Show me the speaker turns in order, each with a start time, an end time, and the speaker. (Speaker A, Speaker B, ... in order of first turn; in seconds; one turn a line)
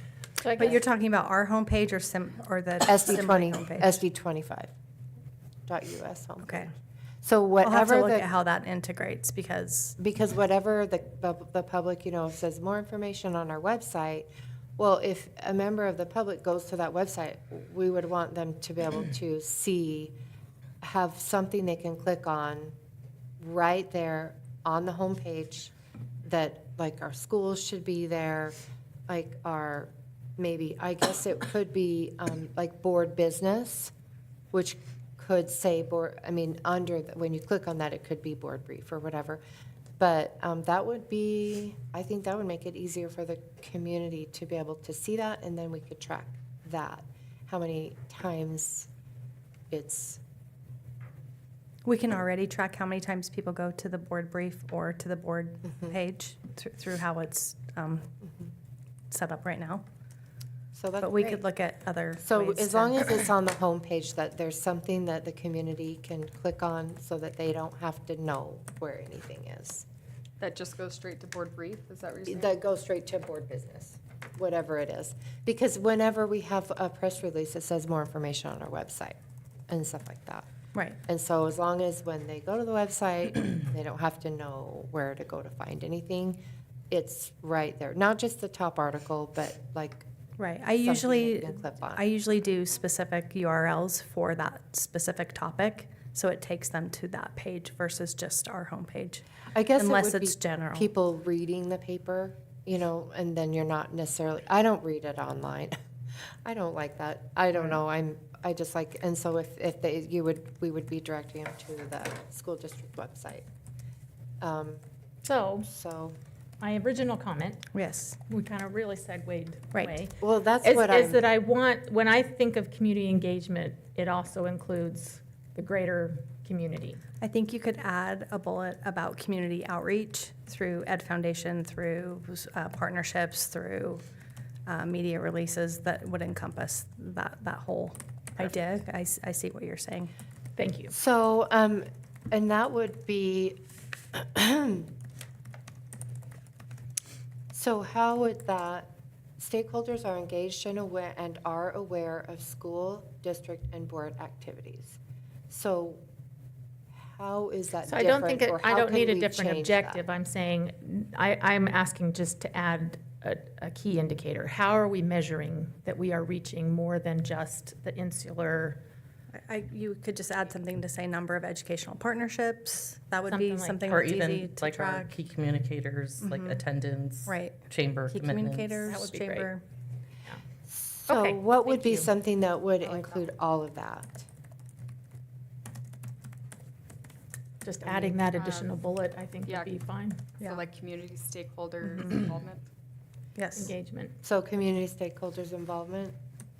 Speaker A: 0.4-0.7
Speaker B: 0.5-4.0
Speaker C: 2.8-4.7
Speaker C: 5.7-6.7
Speaker C: 7.2-8.3
Speaker B: 7.6-9.9
Speaker C: 10.0-20.1
Speaker C: 20.8-22.7
Speaker C: 23.4-25.7
Speaker C: 26.2-28.5
Speaker C: 29.1-33.9
Speaker C: 34.5-39.4
Speaker C: 40.0-48.9
Speaker C: 49.7-50.2
Speaker B: 51.8-58.1
Speaker C: 55.7-55.9
Speaker B: 59.1-59.8
Speaker C: 60.7-61.4
Speaker B: 61.0-63.1
Speaker C: 62.2-69.8
Speaker D: 70.4-72.5
Speaker C: 72.3-79.2
Speaker C: 79.7-80.5
Speaker C: 81.0-86.4
Speaker C: 86.9-90.0
Speaker B: 90.4-99.2
Speaker C: 90.8-92.0
Speaker C: 99.5-105.7
Speaker B: 99.8-100.9
Speaker C: 106.4-113.5
Speaker C: 114.4-114.8
Speaker A: 115.2-115.7
Speaker C: 115.6-116.2
Speaker A: 116.6-117.7
Speaker B: 117.7-118.2
Speaker A: 118.3-127.0
Speaker B: 119.7-120.0
Speaker C: 120.2-121.2
Speaker B: 127.2-134.0
Speaker B: 134.7-140.1
Speaker A: 140.6-140.9
Speaker C: 140.9-143.6
Speaker C: 144.1-144.9
Speaker C: 147.5-156.0
Speaker C: 156.9-160.0
Speaker A: 157.8-168.8
Speaker B: 169.3-175.2
Speaker A: 173.2-174.0
Speaker E: 173.9-178.8
Speaker B: 176.2-176.6
Speaker B: 177.2-179.6
Speaker A: 178.8-179.5
Speaker C: 180.7-184.3
Speaker A: 181.1-182.1
Speaker A: 187.6-190.3
Speaker D: 187.8-188.8
Speaker D: 189.4-192.7
Speaker B: 191.8-192.4
Speaker B: 193.3-193.7
Speaker A: 193.5-194.1
Speaker C: 194.2-196.1